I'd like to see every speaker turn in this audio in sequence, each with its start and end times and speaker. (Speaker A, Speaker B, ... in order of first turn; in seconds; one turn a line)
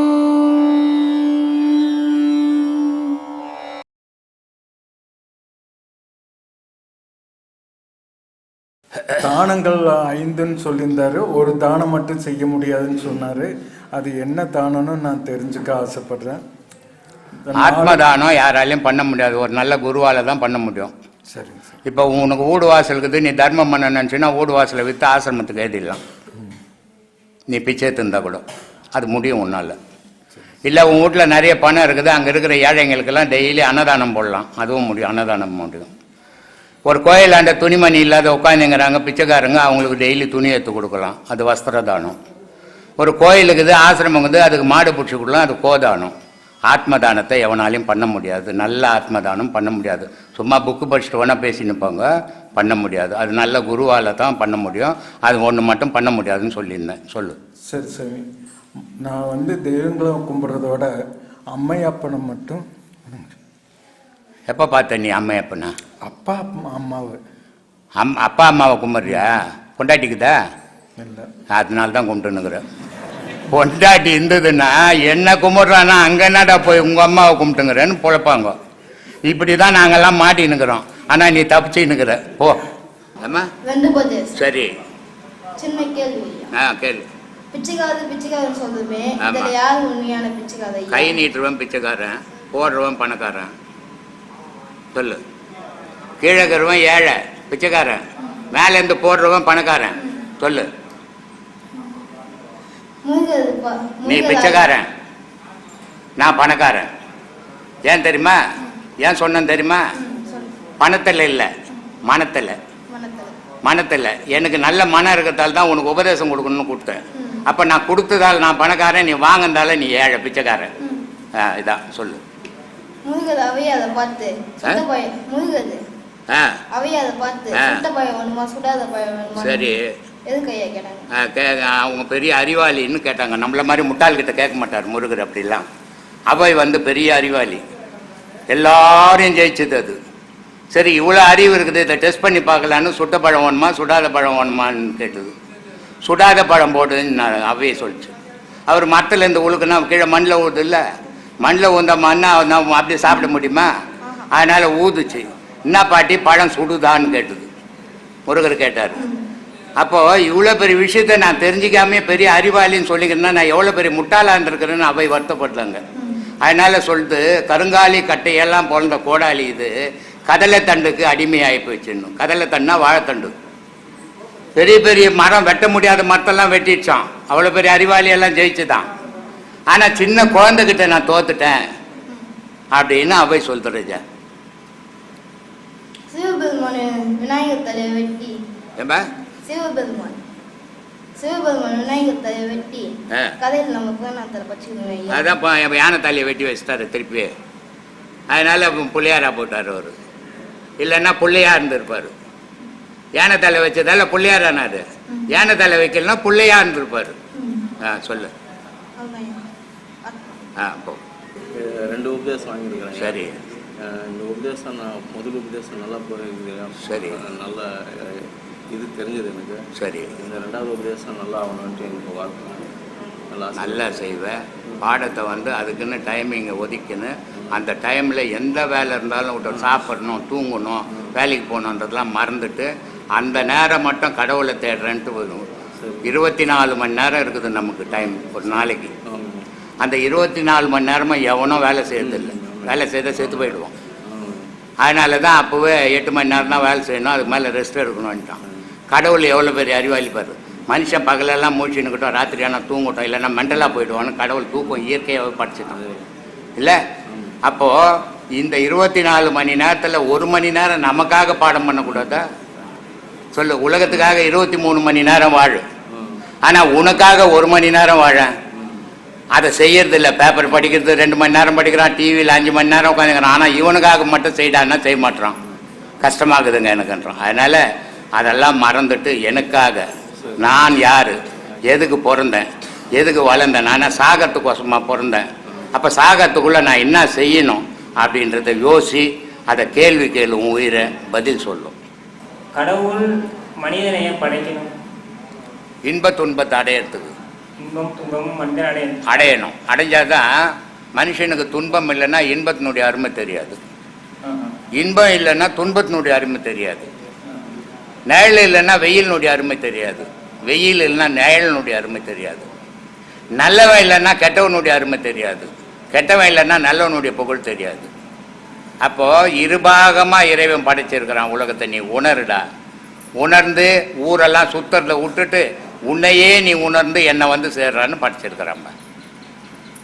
Speaker A: 9.2-16.4
Speaker A: 17.4-18.0
Speaker B: 17.6-20.9
Speaker A: 21.3-21.8
Speaker B: 21.9-26.0
Speaker B: 27.5-28.4
Speaker B: 28.9-29.8
Speaker B: 30.6-35.9
Speaker B: 36.9-42.2
Speaker B: 43.0-46.1
Speaker B: 46.7-57.4
Speaker A: 57.7-58.2
Speaker A: 59.0-60.9
Speaker A: 61.5-63.3
Speaker B: 64.5-65.7
Speaker A: 66.0-67.2
Speaker B: 68.0-70.4
Speaker A: 71.0-71.3
Speaker B: 71.5-72.6
Speaker B: 73.5-78.5
Speaker B: 79.3-82.6
Speaker B: 83.2-83.5
Speaker C: 83.6-84.4
Speaker B: 84.4-84.7
Speaker C: 85.6-86.5
Speaker B: 86.5-87.1
Speaker C: 87.5-91.2
Speaker B: 89.2-89.5
Speaker B: 90.9-93.5
Speaker B: 94.9-95.2
Speaker B: 96.2-100.7
Speaker C: 103.0-104.7
Speaker B: 104.1-104.9
Speaker B: 106.2-106.9
Speaker B: 107.9-108.4
Speaker B: 109.0-109.8
Speaker C: 110.0-110.5
Speaker B: 110.8-111.5
Speaker B: 112.0-112.6
Speaker C: 112.9-113.3
Speaker B: 113.6-120.7
Speaker C: 117.1-117.4
Speaker C: 120.8-121.1
Speaker B: 121.3-122.2
Speaker C: 123.0-125.8
Speaker B: 126.3-126.6
Speaker C: 126.7-129.7
Speaker B: 127.5-127.8
Speaker B: 129.4-129.9
Speaker C: 130.3-131.1
Speaker B: 131.1-135.7
Speaker B: 136.3-137.6
Speaker B: 138.5-140.0
Speaker B: 140.7-145.3
Speaker B: 146.0-148.1
Speaker B: 148.7-150.8
Speaker B: 151.4-153.7
Speaker C: 154.0-154.3
Speaker B: 154.3-157.5
Speaker B: 158.3-159.0
Speaker C: 159.0-159.2
Speaker B: 159.8-165.8
Speaker C: 166.0-166.2
Speaker B: 166.4-169.8
Speaker B: 170.3-173.3
Speaker B: 174.6-178.9
Speaker B: 179.7-181.6
Speaker B: 182.7-184.0
Speaker C: 186.1-188.4
Speaker B: 188.8-189.1
Speaker C: 189.4-190.2
Speaker C: 191.2-195.3
Speaker B: 195.1-197.3
Speaker B: 198.3-199.9
Speaker B: 200.8-202.1
Speaker B: 203.2-207.2
Speaker C: 207.3-207.7
Speaker B: 207.8-208.3
Speaker C: 209.0-209.4
Speaker B: 210.6-211.0
Speaker D: 211.6-219.6
Speaker B: 213.0-213.3
Speaker B: 216.8-217.2
Speaker B: 219.8-220.1
Speaker D: 220.2-222.7
Speaker D: 223.3-223.9
Speaker B: 223.6-235.4
Speaker D: 235.8-236.1
Speaker B: 236.0-238.9
Speaker D: 239.1-239.4
Speaker B: 239.8-243.7
Speaker D: 242.0-244.5
Speaker B: 244.8-255.8
Speaker D: 255.7-256.1
Speaker B: 256.6-256.8
Speaker D: 257.1-257.4
Speaker B: 257.4-262.3
Speaker B: 263.3-265.6
Speaker D: 265.9-266.2
Speaker B: 266.4-268.4
Speaker D: 268.5-268.9
Speaker B: 269.3-275.4
Speaker B: 276.0-277.6
Speaker B: 278.1-279.9
Speaker D: 280.2-280.5
Speaker B: 280.4-291.7
Speaker E: 292.6-293.1
Speaker E: 293.6-294.7
Speaker B: 295.8-297.1
Speaker E: 297.6-299.0
Speaker B: 299.1-303.6
Speaker E: 304.2-304.6
Speaker B: 304.8-306.9
Speaker B: 308.1-312.5
Speaker B: 313.4-317.9
Speaker B: 318.8-322.5
Speaker B: 323.2-328.7